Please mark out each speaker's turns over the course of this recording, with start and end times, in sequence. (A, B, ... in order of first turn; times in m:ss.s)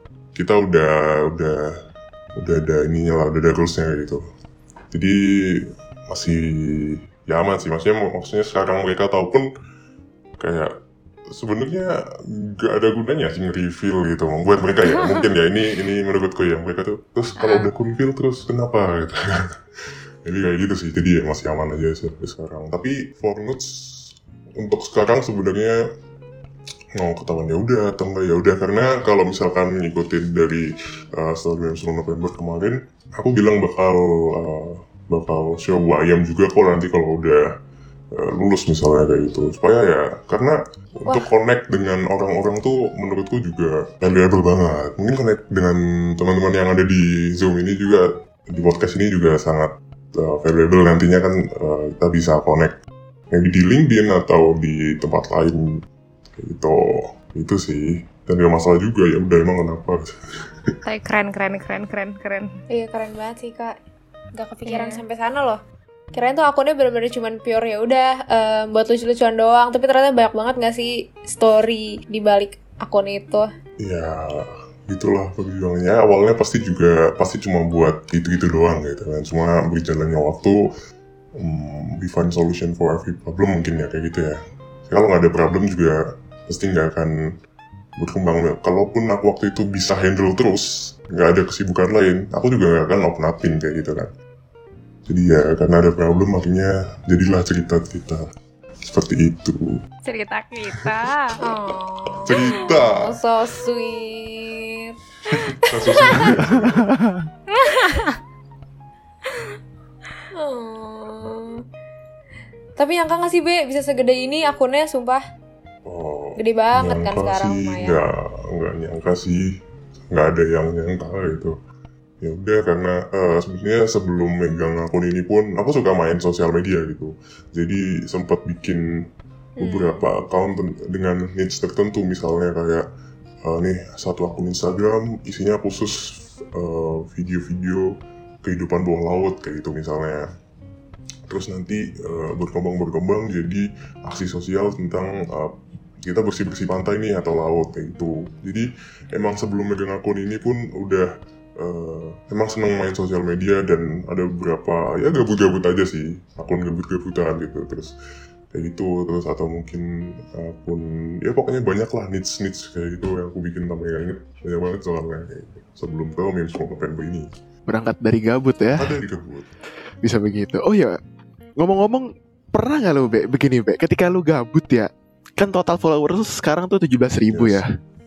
0:00.4-0:01.7 A
0:02.4-0:04.2 A
0:04.9-0:09.5 A
0:10.4-0:10.7 A
0:11.3-0:19.6 A
0:17.4-0:17.7 B
0:20.2-0:25.8 A
0:27.0-0:37.5 A
0:38.1-0:52.8 A
0:53.3-0:55.8 A
0:56.4-1:00.8 A
1:00.8-1:02.6 B
1:02.7-1:03.8 C
1:04.4-1:05.6 C
1:04.7-1:05.0 B
1:06.1-1:13.5 C
1:13.8-1:20.6 A
1:21.4-1:27.2 A
1:28.0-1:34.1 A
1:35.1-1:38.3 A
1:38.8-1:39.8 A
1:40.0-1:41.4 B
1:41.4-1:46.3 C
1:42.2-1:43.1 A
1:42.3-1:42.8 B
1:45.3-1:46.9 A
1:46.1-1:47.3 D
1:47.5-1:48.2 B
1:47.7-1:48.0 C
1:50.4-1:51.6 C
1:52.8-1:55.2 C
1:55.8-1:59.5 A
1:56.4-1:58.0 C
2:00.1-2:01.6 A
2:02.2-2:08.8 A
2:09.6-2:10.0 C
2:09.6-2:12.8 A
2:13.4-2:20.3 A
2:21.3-2:37.9 A
2:38.5-2:47.3 A
2:47.7-2:48.9 D
2:48.8-2:49.5 A
2:50.0-2:51.0 D
2:51.6-2:57.7 D
2:57.3-2:57.6 A